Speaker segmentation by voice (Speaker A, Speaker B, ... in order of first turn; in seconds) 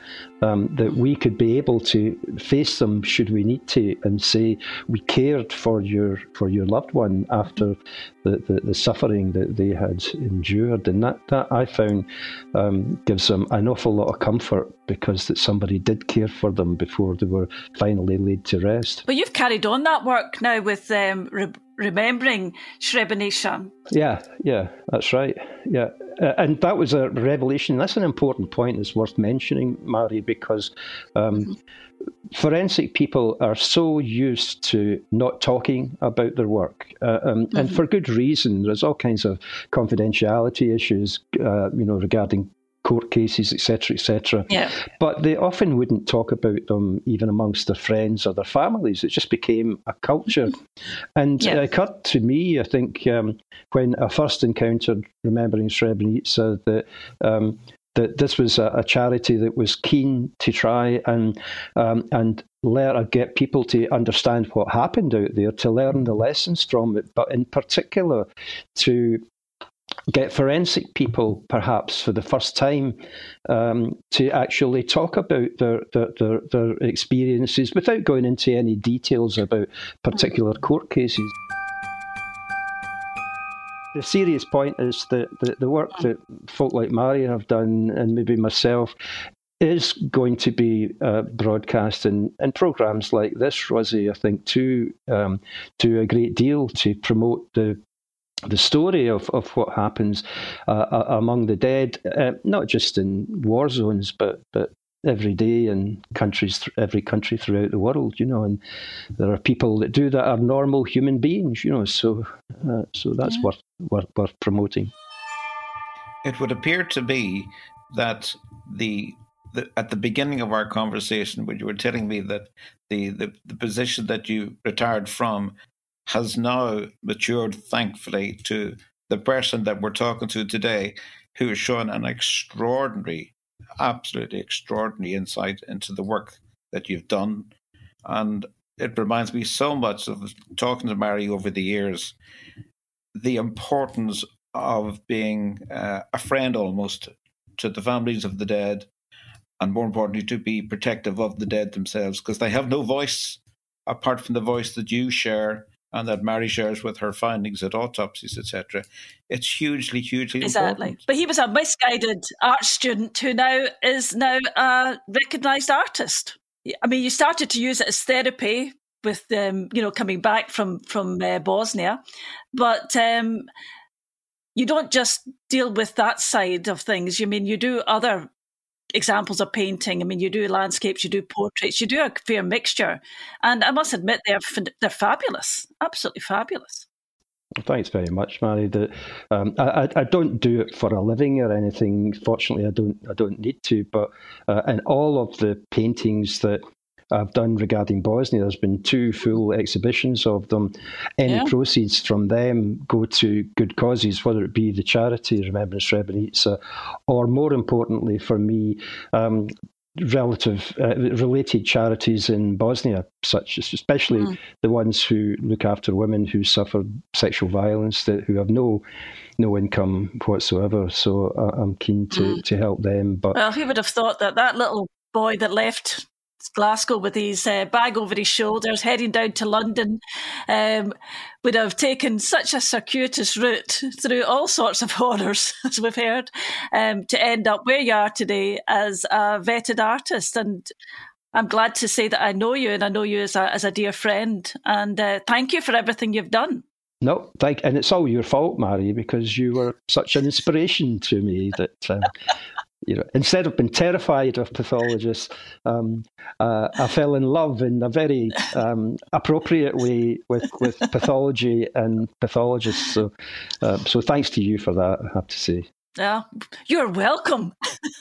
Speaker A: 0.4-19.0, 23.9-31.5, 32.3-50.6, 51.1-69.2, 70.1-81.3, 83.9-88.9, 89.6-97.8, 98.5-108.6, 109.2-114.9, 187.6-196.6, 197.1-218.8, 219.4-223.4, 247.0-252.1, 252.8-265.6
Speaker B: 19.1-23.7, 44.5-44.8, 160.4-172.0, 172.5-173.4, 174.6-178.3, 178.9-186.8, 201.2-201.5, 223.3-240.7, 241.3-246.6, 266.0-267.5
Speaker C: 116.2-125.5, 126.1-137.5, 138.0-142.2, 143.1-148.9, 149.6-161.0